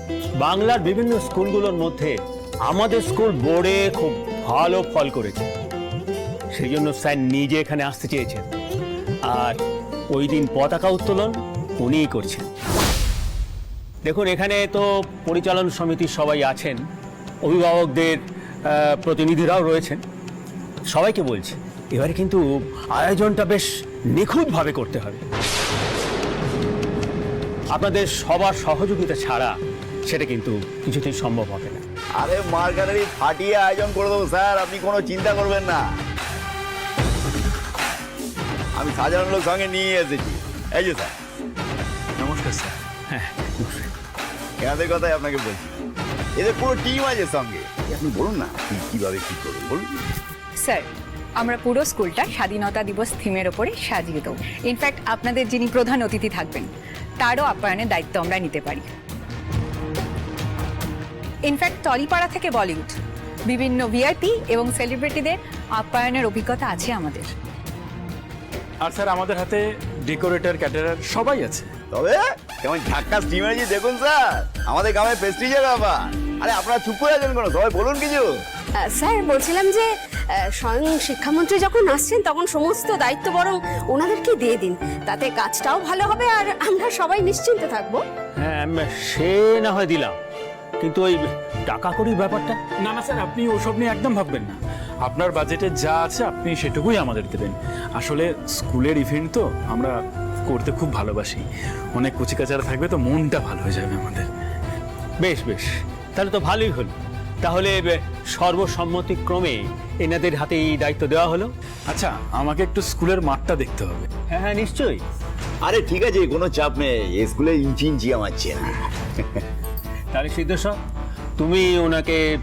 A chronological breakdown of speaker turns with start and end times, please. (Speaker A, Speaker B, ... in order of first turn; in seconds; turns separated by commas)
Speaker A: 0.4-5.5, Speaker A: 6.5-8.5, Speaker A: 9.3-9.6, Speaker A: 10.1-12.5, Speaker A: 14.1-16.8, Speaker A: 17.4-20.0, Speaker A: 20.9-25.2, Speaker A: 27.7-31.8, Speaker B: 32.2-35.8, Speaker B: 38.8-41.1, Speaker C: 42.2-42.8, Speaker A: 43.1-43.9, Speaker B: 44.6-45.8, Speaker B: 46.4-49.8, Speaker D: 50.6-58.9, Speaker D: 61.5-63.0, Speaker D: 63.5-67.3, Speaker C: 68.8-71.7, Speaker B: 71.9-78.3, Speaker E: 78.8-88.0, Speaker A: 88.4-90.2, Speaker A: 90.8-92.6, Speaker C: 92.8-100.0, Speaker C: 100.5-104.3, Speaker A: 105.2-111.5, Speaker C: 111.9-114.1, Speaker A: 114.3-115.0, Speaker B: 115.6-119.4, Speaker A: 120.1-120.8, Speaker A: 121.4-122.3